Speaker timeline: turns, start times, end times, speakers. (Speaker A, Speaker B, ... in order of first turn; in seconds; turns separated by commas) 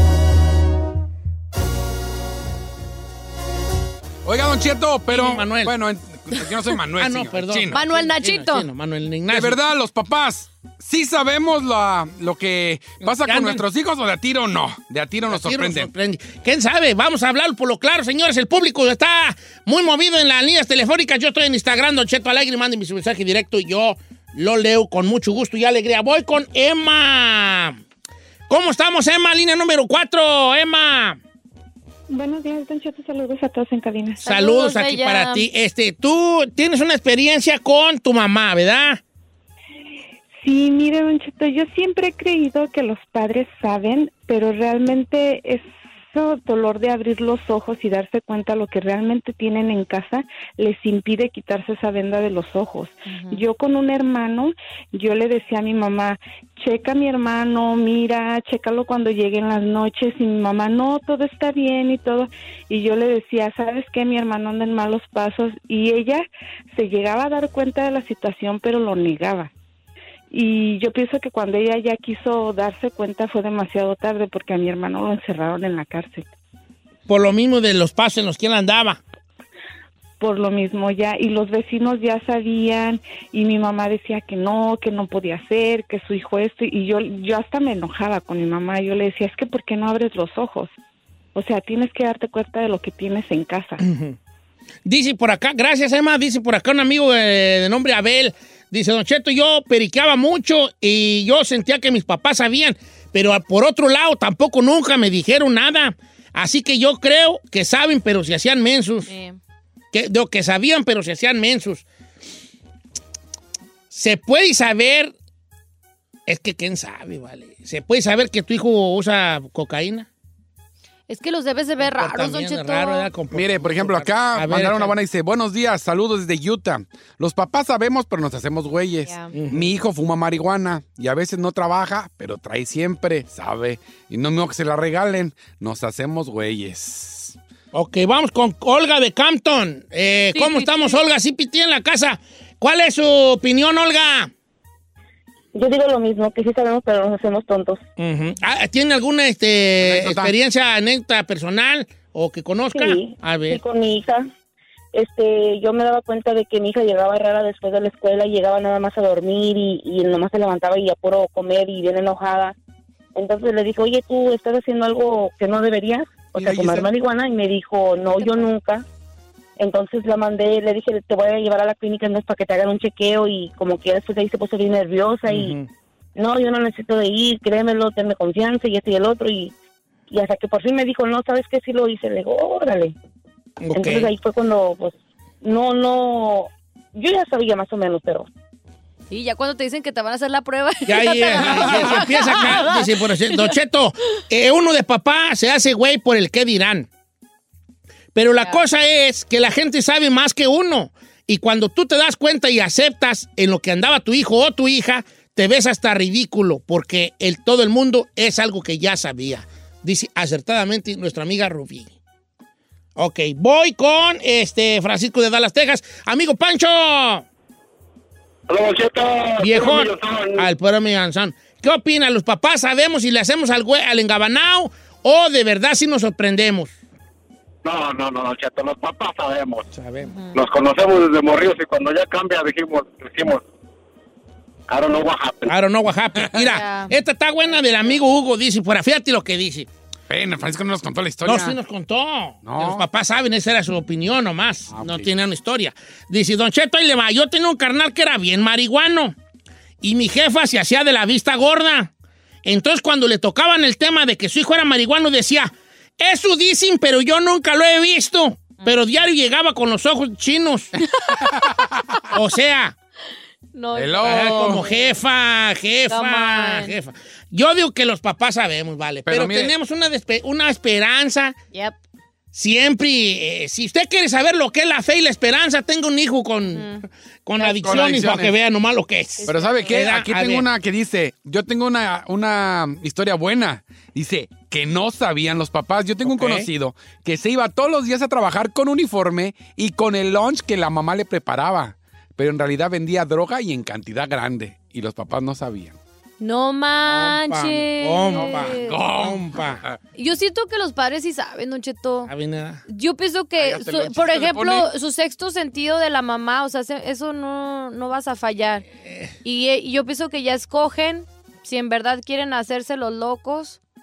Speaker A: 4.2-7.8, Speaker B: 5.1-5.7, Speaker B: 7.0-9.6, Speaker C: 7.7-8.7, Speaker A: 9.3-15.9, Speaker B: 13.0-13.6, Speaker B: 15.3-27.8, Speaker B: 28.5-31.2, Speaker D: 32.1-34.2, Speaker C: 34.2-35.5, Speaker B: 34.2-39.0, Speaker D: 40.4-69.5, Speaker C: 53.0-53.4, Speaker D: 70.3-76.3, Speaker B: 77.1-79.0, Speaker D: 80.2-90.7, Speaker D: 91.3-93.8, Speaker B: 93.8-94.1, Speaker B: 94.8-109.1, Speaker C: 109.1-109.4, Speaker B: 109.9-111.8, Speaker B: 113.9-115.1, Speaker B: 116.3-120.1, Speaker C: 121.1-123.1, Speaker B: 121.8-124.9, Speaker A: 123.3-137.3, Speaker C: 129.1-129.3, Speaker B: 129.3-129.7, Speaker B: 137.7-144.3, Speaker C: 140.3-141.0, Speaker E: 145.5-147.8, Speaker B: 148.0-153.6, Speaker A: 149.8-150.3, Speaker E: 152.7-154.3, Speaker E: 154.9-162.5, Speaker E: 163.1-168.8, Speaker B: 166.3-166.8, Speaker C: 168.2-168.5, Speaker E: 169.6-175.6, Speaker B: 175.3-175.7, Speaker E: 176.2-179.5, Speaker E: 180.1-182.9, Speaker B: 183.6-184.1, Speaker E: 183.7-188.3, Speaker C: 189.1-193.5, Speaker B: 190.8-196.9, Speaker B: 198.1-211.9, Speaker B: 213.0-217.2, Speaker F: 218.5-220.5, Speaker B: 219.4-226.7, Speaker F: 227.6-229.7, Speaker B: 229.7-230.1, Speaker C: 230.0-230.4, Speaker F: 230.3-233.4, Speaker F: 234.7-235.5, Speaker B: 235.5-239.7, Speaker C: 236.4-236.9, Speaker C: 237.4-238.0, Speaker A: 240.1-241.6, Speaker B: 241.2-249.1, Speaker A: 242.4-242.8, Speaker A: 244.7-245.1, Speaker B: 249.8-251.9, Speaker B: 252.4-260.7, Speaker A: 261.2-261.9, Speaker B: 262.1-262.7, Speaker C: 263.5-264.9, Speaker A: 263.7-264.6, Speaker B: 264.0-271.4, Speaker C: 265.9-266.7, Speaker A: 269.1-269.5, Speaker B: 272.3-280.5, Speaker C: 276.5-276.9, Speaker A: 277.4-278.3, Speaker C: 279.2-279.8, Speaker A: 279.2-295.8, Speaker B: 286.0-286.5, Speaker C: 296.2-298.8, Speaker B: 296.8-299.6, Speaker A: 298.1-299.8, Speaker C: 299.9-302.1, Speaker B: 302.1-302.6, Speaker C: 302.7-308.6, Speaker A: 303.4-304.7, Speaker B: 308.8-309.1, Speaker C: 309.2-313.6